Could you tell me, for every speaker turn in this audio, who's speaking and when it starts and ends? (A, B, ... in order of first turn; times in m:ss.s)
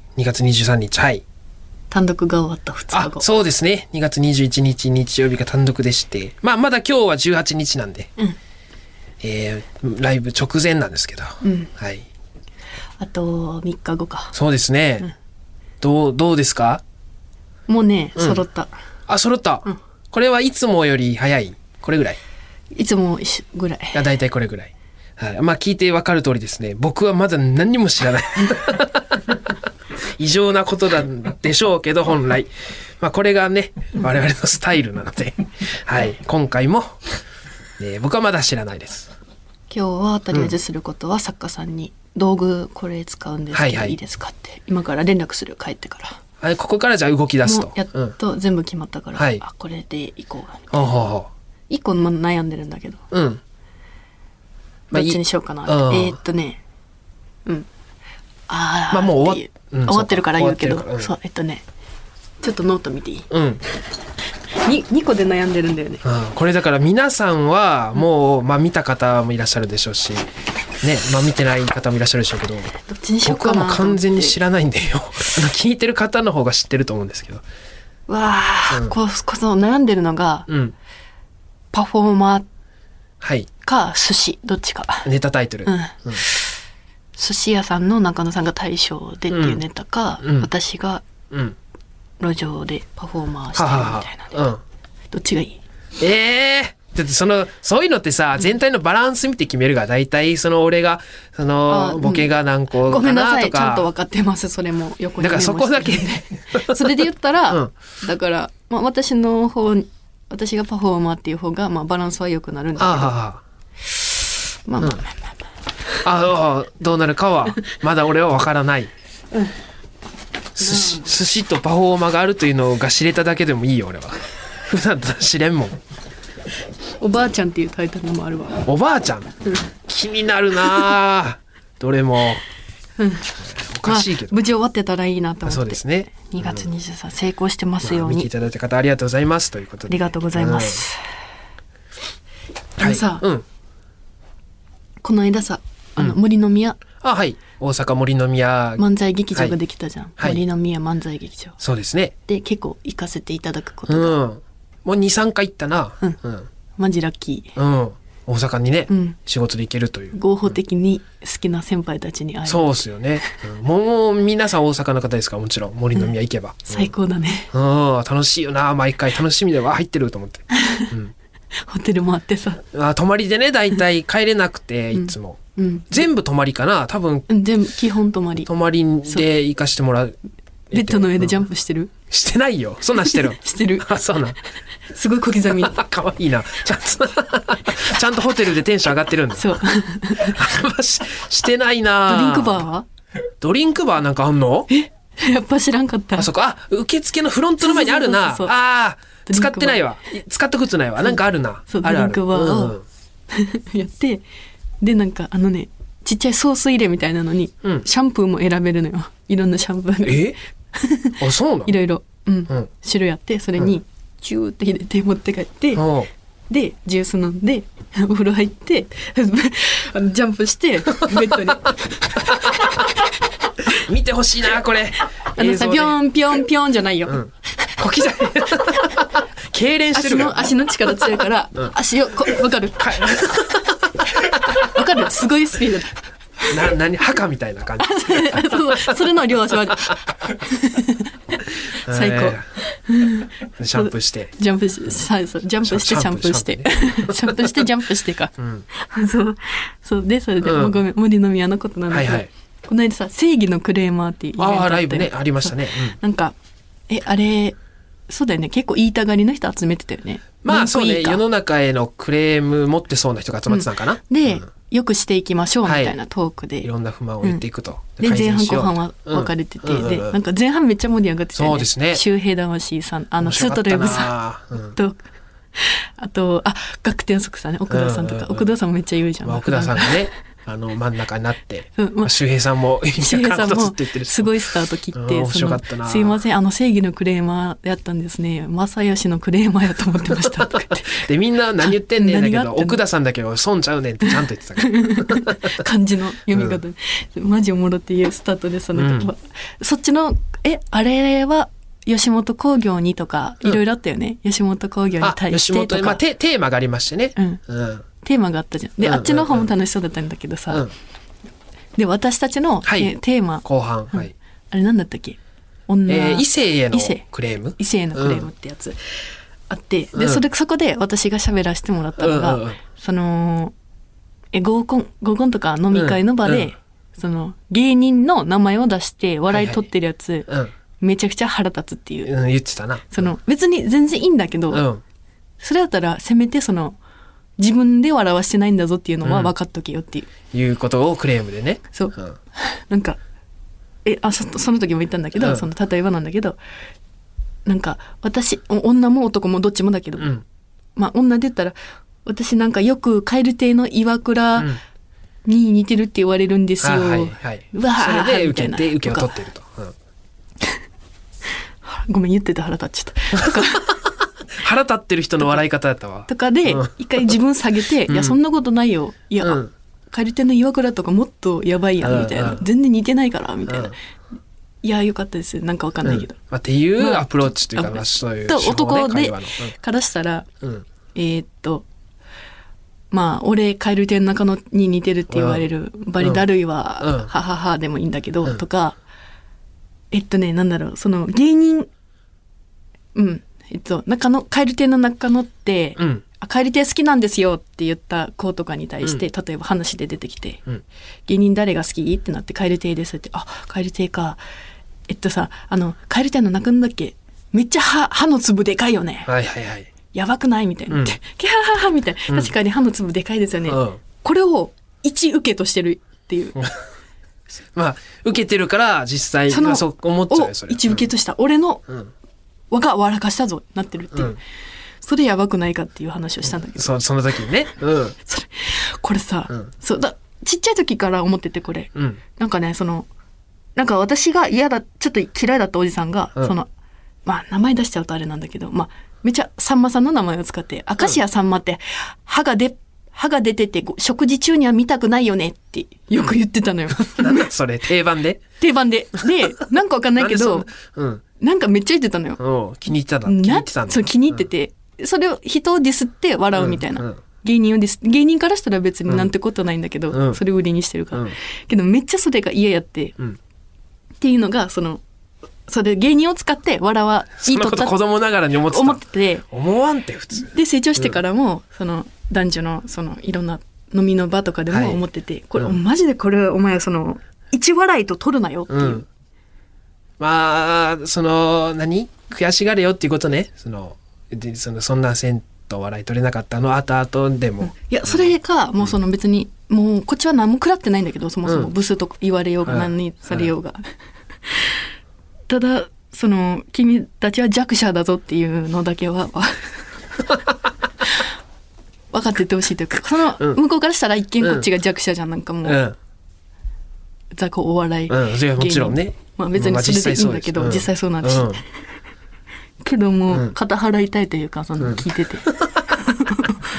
0:00.2-0:01.2 A
0:01.9-0:03.3 B
0:02.9-0:08.1 A
0:09.2-0:12.0 A
0:11.4-0:11.7 B
0:13.0-0:14.3 B
0:14.3-0:15.1 A
0:15.8-0:16.8 A
0:17.7-0:18.7 B
0:19.1-0:22.2 A
0:22.7-0:24.1 B
0:23.9-0:29.4 A
0:30.2-0:37.0 A
0:37.8-0:39.1 A
0:39.7-0:46.2 B
0:43.5-0:44.0 A
0:46.4-0:48.1 A
0:47.4-0:50.9 B
0:49.1-0:49.4 A
0:50.7-0:51.3 A
0:51.7-0:53.0 B
0:53.1-0:53.4 A
0:54.9-0:56.2 A
0:54.9-0:56.6 B
0:58.5-1:01.6 B
0:58.9-1:01.1 A
1:02.4-1:03.3 B
1:03.3-1:03.6 A
1:04.6-1:06.0 B
1:06.0-1:10.3 A
1:10.8-1:12.7 A
1:12.9-1:14.4 B
1:13.2-1:17.4 A
1:18.1-1:20.5 B
1:20.5-1:20.7 A
1:21.7-1:22.5 B
1:23.2-1:23.5 A
1:23.6-1:25.1 B
1:25.0-1:26.2 A
1:25.6-1:26.5 B
1:27.2-1:31.0 B
1:29.3-1:29.6 A
1:30.2-1:30.5 A
1:31.3-1:31.6 A
1:32.2-1:34.4 B
1:33.5-1:34.6 A
1:35.1-1:35.6 B
1:36.0-1:43.9 A
1:41.7-1:42.3 B
1:42.8-1:53.2 B
1:45.2-1:46.8 A
1:52.8-1:53.4 A
1:54.6-1:55.4 B
1:56.0-1:58.9 A
2:00.6-2:05.8 A
2:00.6-2:01.1 B
2:07.0-2:08.7 B
2:08.6-2:12.4 A
2:13.0-2:18.3 B
2:13.4-2:14.4 A
2:15.4-2:16.7 A
2:17.8-2:20.8 A
2:19.9-2:21.0 B
2:22.8-2:23.4 A
2:22.8-2:23.2 B
2:25.0-2:26.8 B
2:27.0-2:29.6 A
2:28.8-2:31.6 B
2:31.6-2:32.1 A
2:32.2-2:34.2 B
2:33.9-2:36.5 A
2:36.8-2:37.6 B
2:37.6-2:40.2 A
2:38.9-2:39.2 B
2:40.1-2:43.4 B
2:42.4-2:46.9 A
2:46.6-2:47.5 B
2:47.5-2:51.1 A
2:50.6-2:50.9 B
2:51.6-2:52.6 B
2:52.7-2:57.3 A
2:54.9-2:56.0 B
2:57.3-2:58.5 B
2:58.5-3:00.2 A
3:00.7-3:01.4 A
3:00.7-3:01.9 B
3:02.1-3:04.4 A
3:03.0-3:03.9 B
3:04.9-3:05.8 B
3:05.5-3:09.6 A
3:09.4-3:10.4 B
3:10.2-3:12.6 A
3:12.1-3:12.9 B
3:13.4-3:14.7 A
3:14.7-3:16.3 B
3:16.2-3:22.8 A
3:17.6-3:18.5 B
3:19.2-3:19.8 B
3:21.7-3:22.8 B
3:23.3-3:24.2 B
3:24.8-3:35.9 B
3:30.0-3:30.4 A
3:31.2-3:31.7 A
3:35.7-3:36.1 A
3:36.5-3:43.1 B
3:41.0-3:41.5 A
3:42.3-3:42.7 A
3:43.6-3:46.0 A
3:45.3-3:47.7 B
3:47.1-3:51.0 A
3:48.6-3:49.0 B
3:49.9-3:53.1 B
3:52.8-3:54.6 A
3:54.2-3:56.7 B
3:56.5-3:59.0 A
3:57.8-4:16.3 B
4:01.8-4:02.5 A
4:03.6-4:04.3 A
4:05.6-4:07.6 A
4:08.4-4:08.6 A
4:10.4-4:10.8 A
4:11.9-4:12.3 A
4:14.4-4:16.0 A
4:16.9-4:17.6 B
4:18.1-4:21.2 B
4:20.4-4:24.0 A
4:23.5-4:26.7 B
4:25.6-4:26.0 A
4:26.6-4:30.2 A
4:28.0-4:34.2 B
4:31.3-4:32.0 A
4:33.2-4:34.8 A
4:34.7-4:35.0 B
4:35.6-4:40.0 B
4:37.7-4:38.4 A
4:39.2-4:44.4 A
4:41.8-4:42.1 B
4:43.0-4:51.0 B
4:44.9-4:46.2 A
4:50.8-4:55.5 A
4:51.9-4:52.8 B
4:54.6-5:06.0 B
4:56.3-4:56.6 A
4:58.7-4:59.1 A
5:05.0-5:07.8 A
5:07.2-5:07.4 B
5:08.0-5:10.7 B
5:08.8-5:09.5 A
5:11.8-5:17.0 B
5:12.6-5:12.9 A
5:13.4-5:14.1 A
5:15.9-5:18.3 A
5:17.6-5:18.8 B
5:19.5-5:23.5 B
5:19.9-5:20.2 A
5:22.0-5:22.6 A
5:24.3-5:30.3 B
5:25.7-5:26.5 A
5:29.3-5:29.6 A
5:30.8-5:32.1 B
5:32.0-5:33.1 A
5:32.9-5:34.7 B
5:34.5-5:34.8 A
5:35.4-5:36.8 B
5:37.4-5:40.1 B
5:39.0-5:39.3 A
5:40.3-5:42.2 A
5:41.7-5:43.0 B
5:43.8-5:46.4 B
5:45.2-5:45.4 A
5:47.4-5:50.2 B
5:50.0-5:50.2 A
5:50.8-5:54.6 B
5:55.2-5:59.2 B
5:56.6-5:59.7 A
6:01.6-6:03.8 B
6:04.3-6:06.7 A
6:06.1-6:13.8 B
6:07.9-6:08.2 A
6:09.2-6:09.5 A
6:11.8-6:12.4 A
6:13.5-6:13.7 A
6:14.6-6:16.2 B
6:15.8-6:19.6 A
6:16.8-6:20.3 B
6:20.9-6:21.6 B
6:22.9-6:28.8 B
6:25.1-6:25.4 A
6:26.8-6:27.1 A
6:29.9-6:31.7 B
6:32.9-6:40.4 B
6:35.8-6:36.0 A
6:41.1-6:44.2 B
6:44.9-6:49.1 B
6:49.0-6:49.7 A
6:49.9-6:56.4 B
6:50.7-6:50.9 A
6:52.1-6:52.3 A
6:53.5-6:53.8 A
6:56.4-6:56.6 A
6:57.5-7:00.9 A
6:59.3-7:01.6 B
7:02.5-7:04.2 B
7:04.8-7:06.7 B
7:06.5-7:08.0 A
7:08.0-7:12.9 B
7:11.7-7:12.0 A
7:13.6-7:16.5 B
7:17.0-7:27.3 B
7:26.8-7:28.2 A
7:28.4-7:30.5 B
7:30.0-7:31.0 A
7:31.2-7:32.2 B
7:32.2-7:34.2 A
7:33.0-7:43.0 B
7:36.3-7:37.0 A
7:39.9-7:40.2 A
7:44.0-7:44.8 B
7:45.5-7:47.7 B
7:47.2-7:51.0 A
7:48.4-7:49.2 B
7:50.2-7:58.8 B
7:54.5-7:54.8 A
7:58.5-7:58.8 A
8:00.0-8:08.1 A
8:07.4-8:13.6 B
8:11.2-8:11.5 A
8:12.4-8:13.3 A
8:14.3-8:14.6 B
8:15.3-8:20.0 B
8:21.9-8:25.6 B
8:24.2-8:24.5 A
8:25.4-8:25.8 A
8:27.1-8:31.4 B
8:27.9-8:31.4 A
8:32.6-8:36.4 B